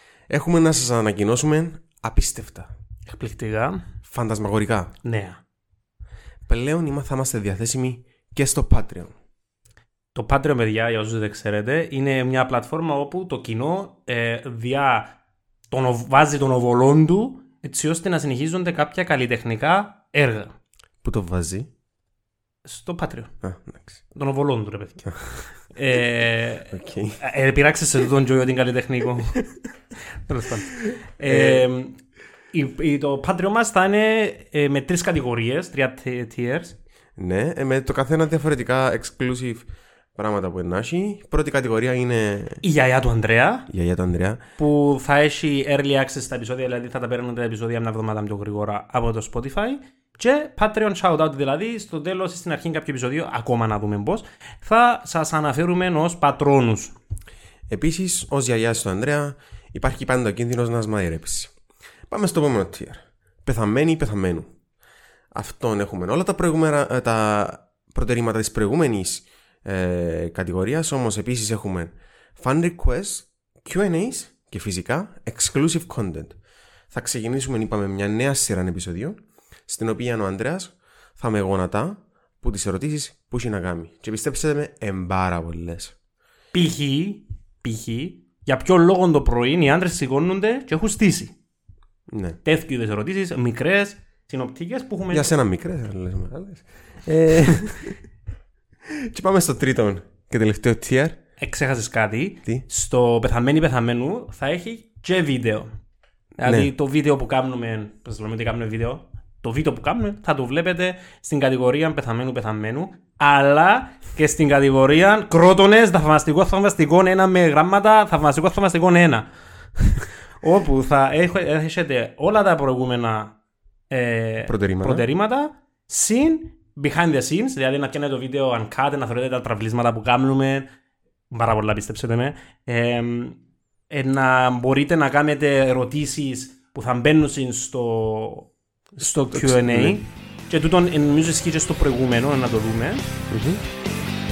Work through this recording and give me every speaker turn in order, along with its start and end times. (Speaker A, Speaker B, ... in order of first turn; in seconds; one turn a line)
Speaker A: 0.3-2.7
Speaker B: 3.0-3.8
Speaker A: 4.0-4.9
Speaker B: 5.0-5.4
Speaker A: 6.5-9.1
Speaker B: 10.1-15.2
Speaker B: 15.7-20.5
Speaker A: 21.0-21.7
Speaker B: 22.6-23.3
Speaker A: 23.4-24.0
Speaker B: 24.1-29.4
Speaker A: 26.7-27.2
Speaker B: 30.3-31.9
Speaker A: 31.3-31.6
Speaker B: 32.5-36.8
Speaker A: 37.2-42.6
Speaker B: 42.6-43.7
Speaker A: 43.7-44.4
Speaker B: 44.6-56.9
Speaker A: 57.7-61.5
Speaker A: 62.1-64.5
Speaker A: 65.3-76.4
Speaker A: 76.9-85.9
Speaker B: 86.5-91.3
Speaker A: 92.1-92.4
Speaker B: 92.4-95.3
Speaker A: 95.1-98.0
Speaker A: 99.1-101.2
Speaker B: 101.4-105.7
Speaker B: 106.4-119.2
Speaker A: 106.4-106.7
Speaker B: 119.8-123.3
Speaker B: 123.9-130.7
Speaker A: 124.4-125.1
Speaker B: 131.3-133.4
Speaker B: 133.9-143.1
Speaker A: 139.2-140.0
Speaker A: 143.3-143.6